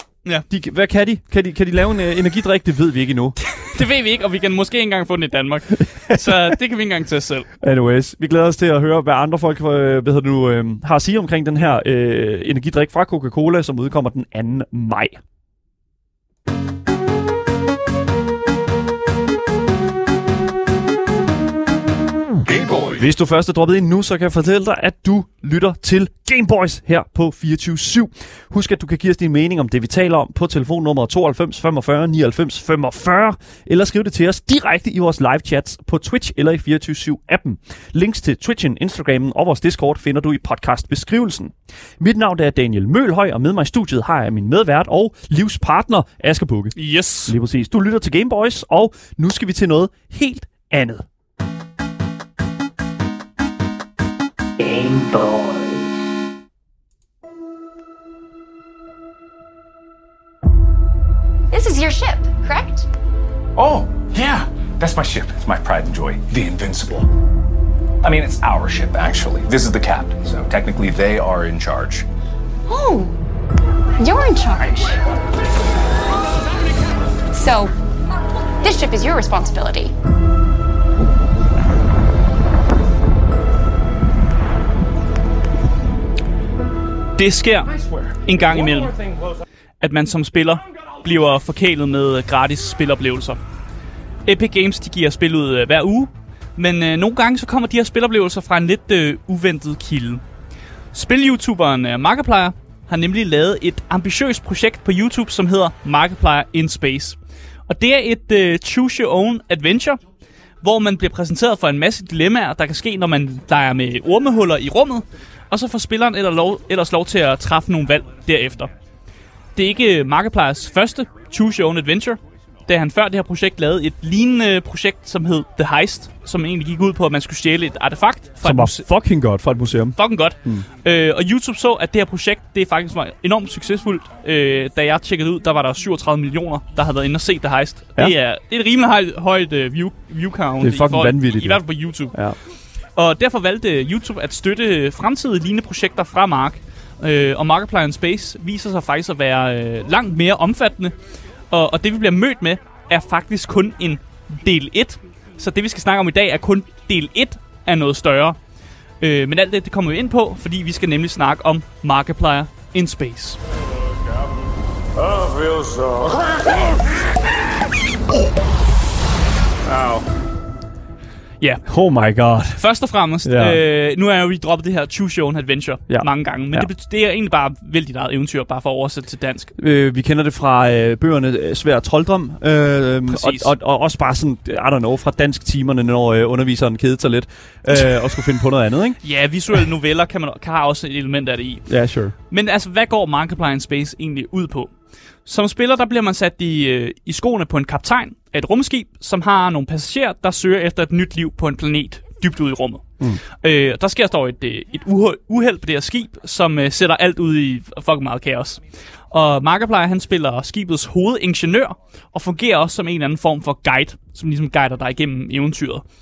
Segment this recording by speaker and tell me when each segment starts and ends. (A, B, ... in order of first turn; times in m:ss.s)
0:00.5-0:03.4 A
0:03.4-0:07.5 B
0:05.8-0:06.5 A
0:07.6-0:15.2 A
0:22.4-0:23.0 C
0:23.0-0:51.0 A
0:46.7-0:47.3 B
0:54.6-0:55.8 A
1:01.5-1:02.9 D
1:03.6-1:07.1 C
1:08.0-1:12.0 C
1:12.7-1:13.2 D
1:14.0-1:15.0 D
1:17.3-1:17.7 D
1:18.6-1:19.9 D
1:27.2-1:29.0 B
1:29.8-1:33.4 B
1:34.2-1:40.2 B
1:40.9-1:50.0 B
1:50.6-1:58.7 B
1:59.5-2:08.8 B
2:08.4-2:10.6 A
2:09.9-2:22.2 B
2:20.6-2:22.4 A
2:22.9-2:30.9 B
2:31.5-2:38.4 B
2:39.0-2:43.4 B
2:45.4-2:46.1 C
2:51.6-2:52.6 A
2:52.6-2:59.5 B
2:53.2-2:53.6 A
2:55.9-2:56.7 A
2:59.6-3:09.0 A
3:03.1-3:03.5 B
3:09.0-3:11.7 B
3:11.7-3:12.1 A
3:12.3-3:14.7 B
3:15.2-3:35.8 B